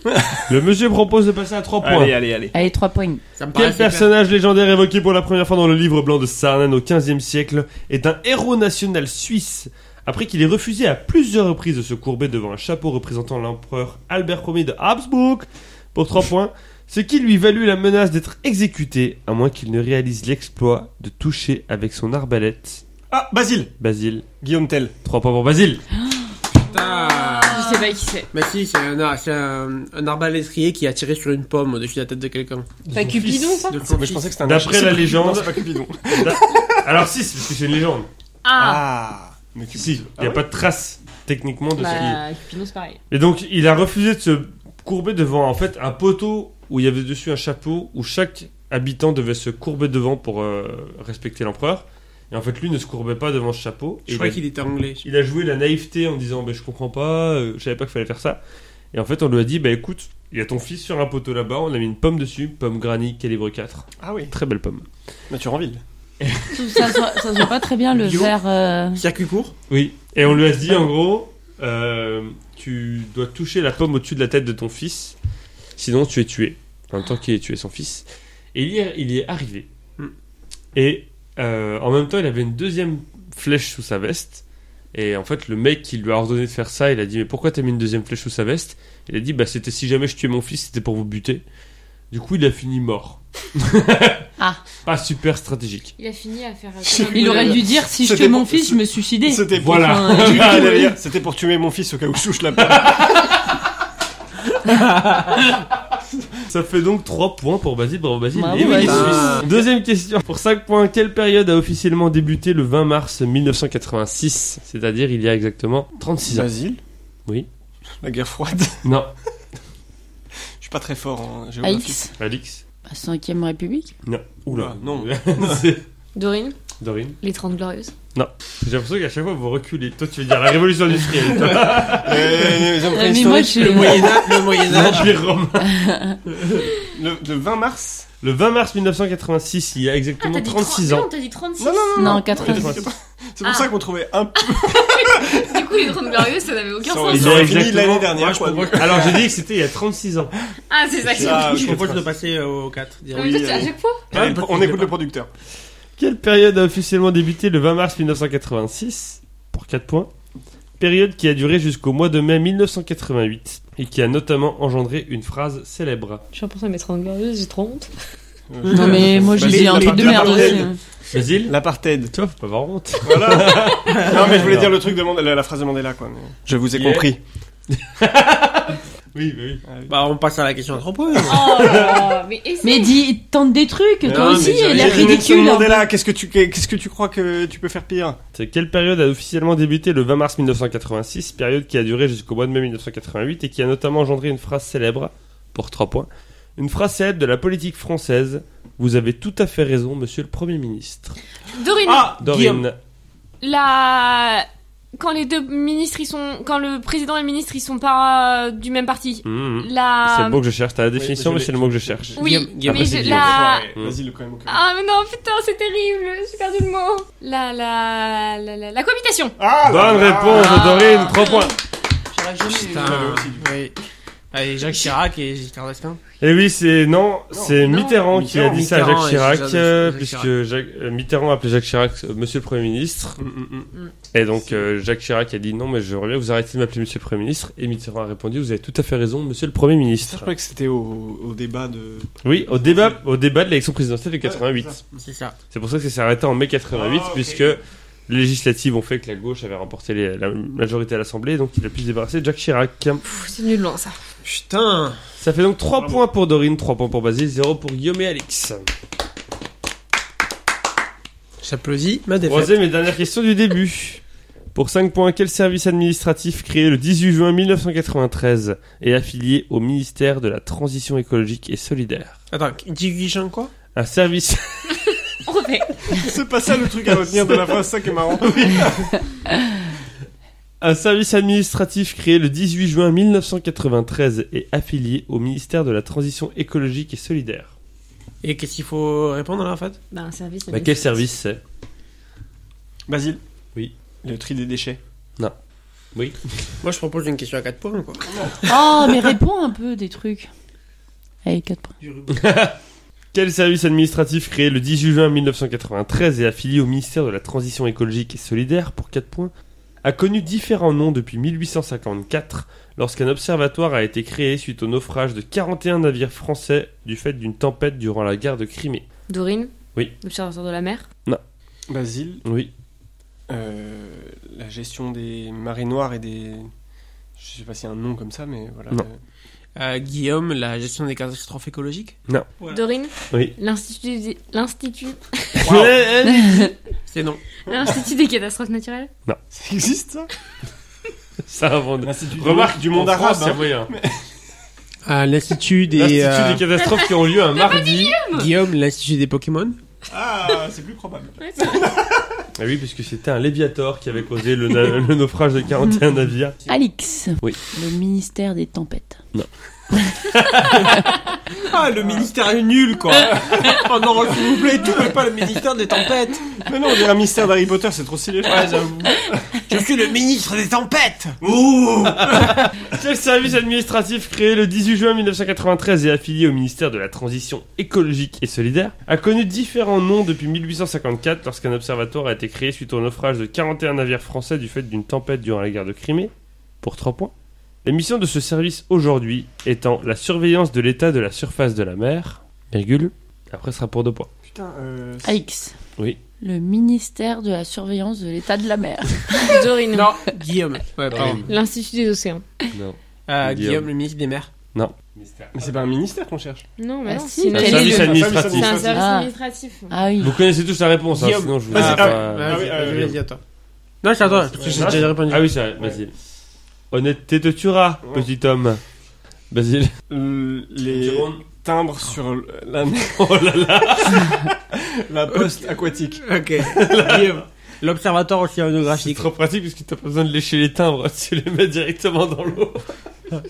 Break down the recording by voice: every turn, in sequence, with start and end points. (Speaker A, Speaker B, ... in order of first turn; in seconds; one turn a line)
Speaker A: 0.1-0.5
Speaker B: 0.5-2.2
Speaker A: 1.8-2.5
Speaker C: 2.5-3.2
Speaker D: 3.4-4.1
Speaker B: 3.5-22.8
Speaker A: 23.1-23.7
Speaker B: 23.8-24.3
Speaker A: 24.4-24.9
Speaker B: 25.0-25.9
Speaker D: 26.6-27.7
Speaker E: 26.7-28.3
Speaker C: 26.8-27.8
Speaker D: 28.3-32.7
Speaker B: 32.9-33.6
Speaker E: 32.9-33.8
Speaker D: 33.7-34.4
Speaker A: 33.8-36.9
Speaker B: 34.4-35.6
Speaker B: 36.1-38.1
Speaker E: 38.4-38.8
Speaker A: 38.5-40.5
Speaker B: 39.7-42.2
Speaker E: 41.8-43.0
Speaker B: 43.1-54.4
Speaker D: 54.1-55.0
Speaker B: 55.0-58.4
Speaker B: 58.9-64.9
Speaker A: 64.0-64.3
Speaker A: 65.3-65.8
Speaker B: 66.2-67.0
Speaker C: 66.5-69.0
Speaker D: 67.9-68.3
Speaker D: 69.0-69.5
Speaker B: 69.7-75.2
Speaker B: 75.8-79.7
Speaker B: 80.8-91.4
Speaker B: 92.1-94.3
Speaker B: 94.8-95.9
Speaker E: 96.0-97.7
Speaker A: 96.8-103.2
Speaker C: 97.1-100.9
Speaker B: 99.5-100.9
Speaker B: 102.6-103.3
Speaker D: 104.7-105.2
Speaker B: 106.5-116.5
Speaker C: 108.3-109.4
Speaker D: 108.6-109.5
Speaker A: 116.3-116.8
Speaker A: 118.0-118.9
Speaker B: 118.8-119.1
Speaker A: 120.6-122.1
Speaker C: 121.6-122.1
Speaker B: 122.2-122.6
Speaker C: 122.8-123.9
Speaker B: 124.0-125.8
Speaker A: 124.5-125.7
Speaker E: 126.2-126.6
Speaker B: 126.8-127.2
Speaker E: 127.2-127.9
Speaker B: 128.1-132.6
Speaker A: 131.7-135.2
Speaker C: 132.8-134.3
Speaker D: 133.4-135.2
Speaker B: 134.5-135.8
Speaker C: 135.6-136.2
Speaker A: 136.8-138.1
Speaker B: 138.2-141.1
Speaker E: 140.2-142.2
Speaker A: 141.6-145.7
Speaker C: 141.9-142.8
Speaker B: 142.2-142.8
Speaker E: 143.4-143.8
Speaker E: 144.4-147.7
Speaker A: 146.8-149.3
Speaker B: 147.1-148.2
Speaker D: 148.1-149.3
Speaker B: 148.7-150.3
Speaker E: 150.7-151.8
Speaker B: 151.1-151.9
Speaker A: 151.1-152.1
Speaker D: 151.4-153.5
Speaker E: 153.1-154.1
Speaker A: 153.2-155.3
Speaker D: 154.1-154.9
Speaker B: 156.0-160.1
Speaker B: 160.8-166.2
Speaker E: 166.3-167.9
Speaker A: 168.5-170.7
Speaker D: 168.7-170.7
Speaker C: 168.7-170.8
Speaker B: 171.1-171.6
Speaker A: 171.4-172.1
Speaker B: 172.1-174.8
Speaker A: 173.0-177.2
Speaker B: 176.7-177.1
Speaker B: 177.9-179.7
Speaker A: 179.7-179.9
Speaker D: 179.9-181.7
Speaker E: 181.2-183.0
Speaker B: 181.3-182.1
Speaker C: 182.6-185.9
Speaker A: 184.0-188.2
Speaker D: 184.1-185.2
Speaker B: 188.3-201.2
Speaker E: 201.5-202.1
Speaker D: 201.9-202.7
Speaker B: 202.1-202.8
Speaker E: 203.4-210.4
Speaker B: 209.2-214.0
Speaker A: 210.9-214.6
Speaker E: 212.2-213.7
Speaker D: 212.2-213.1
Speaker E: 214.5-219.4
Speaker A: 219.4-220.7
Speaker B: 219.7-221.5
Speaker E: 220.3-221.5
Speaker C: 222.1-223.1
Speaker A: 222.5-223.5
Speaker D: 222.6-223.8
Speaker D: 224.3-226.0
Speaker B: 226.2-233.2
Speaker A: 227.3-228.6
Speaker D: 228.3-230.3
Speaker A: 233.2-233.7
Speaker B: 234.1-240.3
Speaker A: 234.4-234.7
Speaker A: 240.0-243.0
Speaker B: 242.2-244.8
Speaker A: 244.2-244.8
Speaker D: 244.9-245.4
Speaker B: 245.5-253.0
Speaker A: 246.7-247.6
Speaker E: 253.1-254.0
Speaker D: 254.2-255.0
Speaker B: 255.2-258.7
Speaker A: 255.8-256.0
Speaker D: 261.4-262.6
Speaker B: 262.2-264.0
Speaker B: 264.5-272.2
Speaker D: 272.3-273.5
Speaker B: 273.7-274.9
Speaker E: 275.2-276.0
Speaker A: 275.9-278.9
Speaker B: 276.9-277.6
Speaker B: 278.1-278.9
Speaker B: 280.6-287.5
Speaker D: 288.2-289.8
Speaker E: 289.9-291.0
Speaker B: 290.5-291.4
Speaker A: 292.9-293.2
Speaker A: 294.0-294.8
Speaker B: 295.9-296.2
Speaker D: 296.6-298.9
Speaker C: 298.4-300.3
Speaker C: 301.2-301.8
Speaker D: 301.8-302.2
Speaker B: 302.1-302.6
Speaker B: 303.1-309.3
Speaker B: 309.8-318.9
Speaker E: 319.1-320.9
Speaker A: 321.7-322.2
Speaker B: 322.2-322.5
Speaker A: 323.3-326.5
Speaker A: 327.2-329.0
Speaker D: 329.6-332.6
Speaker E: 332.5-335.5
Speaker B: 335.4-336.6
Speaker A: 335.4-335.8
Speaker D: 336.9-337.2
Speaker E: 337.5-338.9
Speaker A: 339.3-340.1
Speaker B: 341.3-343.7
Speaker A: 341.8-344.0
Speaker D: 344.9-346.4
Speaker B: 345.7-348.0
Speaker E: 346.6-348.3
Speaker D: 348.1-349.6
Speaker A: 349.9-352.2
Speaker E: 351.2-351.8
Speaker B: 352.4-356.4
Speaker C: 356.5-359.0
Speaker B: 359.1-360.9
Speaker D: 361.4-366.4
Speaker A: 363.1-363.6
Speaker A: 364.3-364.9
Speaker A: 366.4-369.3
Speaker D: 368.3-368.8
Speaker D: 369.4-371.2
Speaker A: 371.2-372.5
Speaker B: 371.8-387.1
Speaker B: 387.6-394.1
Speaker A: 394.2-395.2
Speaker C: 395.0-395.6
Speaker C: 396.2-399.5
Speaker E: 399.2-400.0
Speaker D: 399.7-401.3
Speaker B: 400.9-401.3
Speaker E: 401.2-402.3
Speaker B: 402.5-403.7
Speaker D: 403.1-404.3
Speaker B: 404.5-405.6
Speaker A: 405.3-406.4
Speaker E: 406.6-409.7
Speaker C: 406.9-408.1
Speaker B: 407.3-408.7
Speaker A: 407.5-408.8
Speaker C: 408.7-409.1
Speaker C: 409.7-410.2
Speaker B: 410.0-412.9
Speaker D: 410.9-413.2
Speaker A: 411.5-413.0
Speaker D: 413.8-415.3
Speaker A: 414.3-414.9
Speaker B: 414.4-415.9
Speaker B: 416.7-418.6
Speaker B: 419.3-419.7
Speaker A: 419.9-423.1
Speaker B: 420.7-421.2
Speaker B: 422.8-424.3
Speaker A: 423.9-426.0
Speaker D: 426.0-429.1
Speaker B: 426.4-427.2
Speaker B: 428.7-432.7